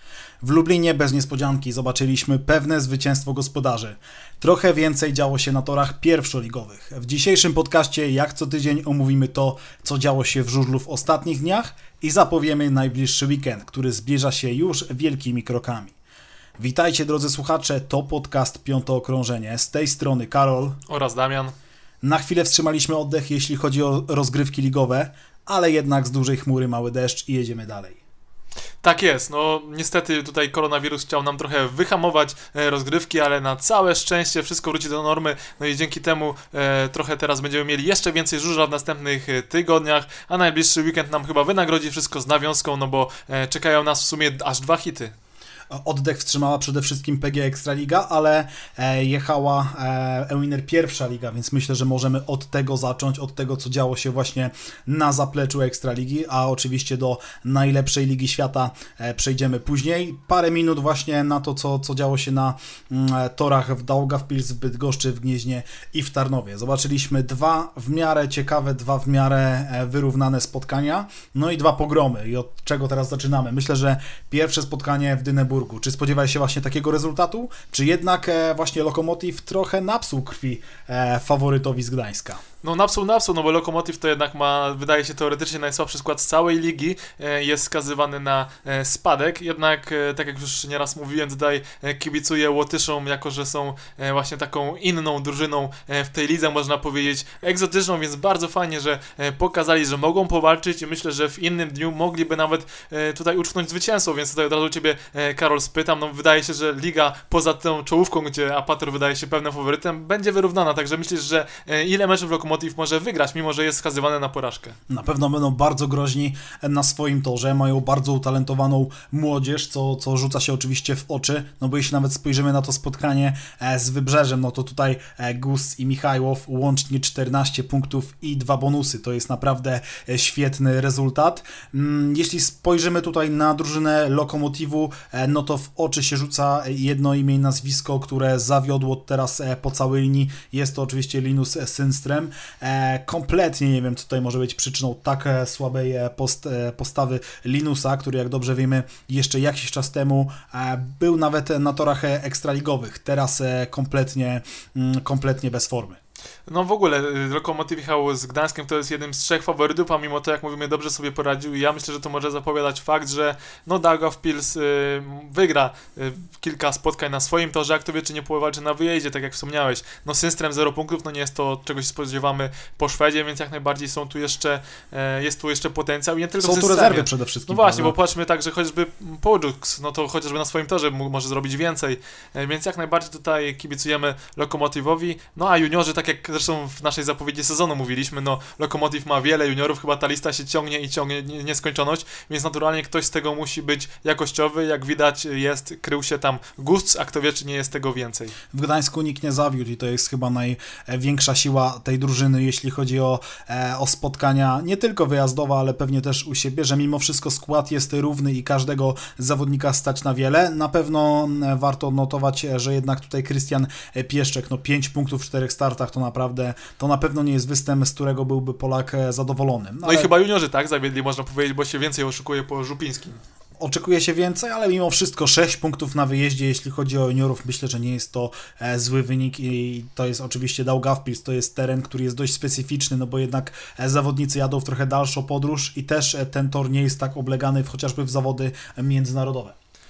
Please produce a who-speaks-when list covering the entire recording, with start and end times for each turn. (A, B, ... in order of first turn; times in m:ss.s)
0:00.4-0:15.9 A
0:16.6-0:20.8 A
0:20.9-0:21.5 B
0:22.0-0:28.0 A
0:28.8-0:45.1 B
0:45.7-1:22.4 A
1:22.6-1:54.7 B
1:54.9-2:36.0 A
2:36.4-3:18.3 B
2:56.4-2:58.0 A
3:18.5-3:40.1 A
3:39.8-3:43.2 B
3:43.6-3:59.5 A